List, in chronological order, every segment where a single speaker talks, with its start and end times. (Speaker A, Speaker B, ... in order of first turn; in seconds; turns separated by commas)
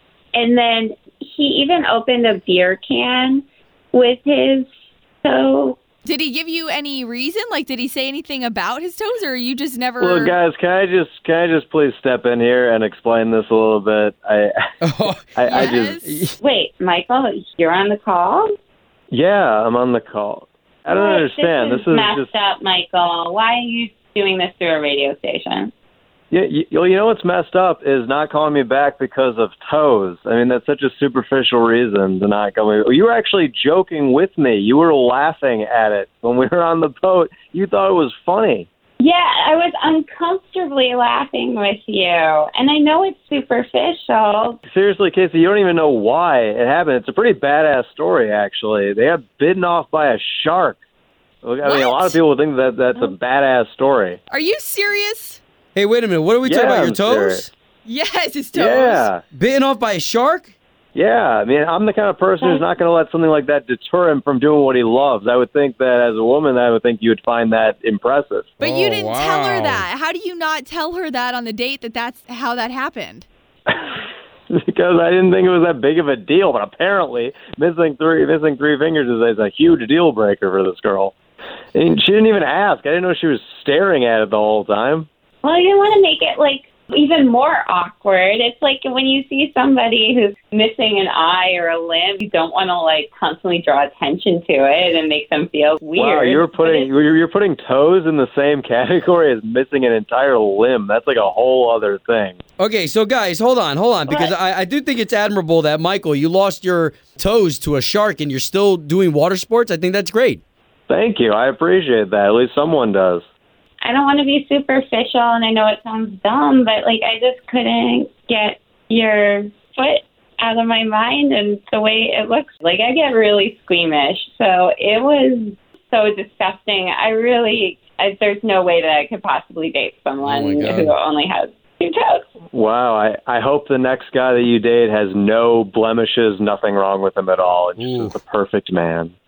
Speaker A: 0.3-4.7, Speaker A: 5.2-5.8, Speaker B: 6.0-10.3, Speaker C: 10.0-14.5, Speaker D: 14.8-16.3, Speaker C: 15.3-16.0, Speaker B: 15.5-16.2, Speaker A: 16.4-18.5, Speaker C: 19.1-22.3, Speaker A: 20.9-25.7, Speaker C: 26.3-38.7, Speaker A: 39.0-44.6, Speaker C: 44.7-50.8, Speaker C: 51.4-54.2, Speaker B: 51.6-52.2, Speaker B: 54.3-55.4, Speaker D: 55.7-57.5, Speaker C: 56.4-57.5, Speaker B: 57.9-59.1, Speaker C: 58.5-59.2, Speaker D: 59.3-60.5, Speaker C: 60.9-68.5, Speaker A: 62.4-62.6, Speaker B: 68.6-73.2, Speaker D: 68.6-69.8, Speaker C: 74.5-81.1, Speaker C: 81.7-85.1, Speaker A: 85.4-96.9, Speaker C: 96.0-102.4, Speaker D: 102.6-110.4, Speaker A: 104.1-104.3, Speaker C: 110.9-113.2, Speaker A: 113.8-132.2, Speaker D: 130.2-130.9, Speaker C: 132.5-139.1, Speaker D: 137.8-138.2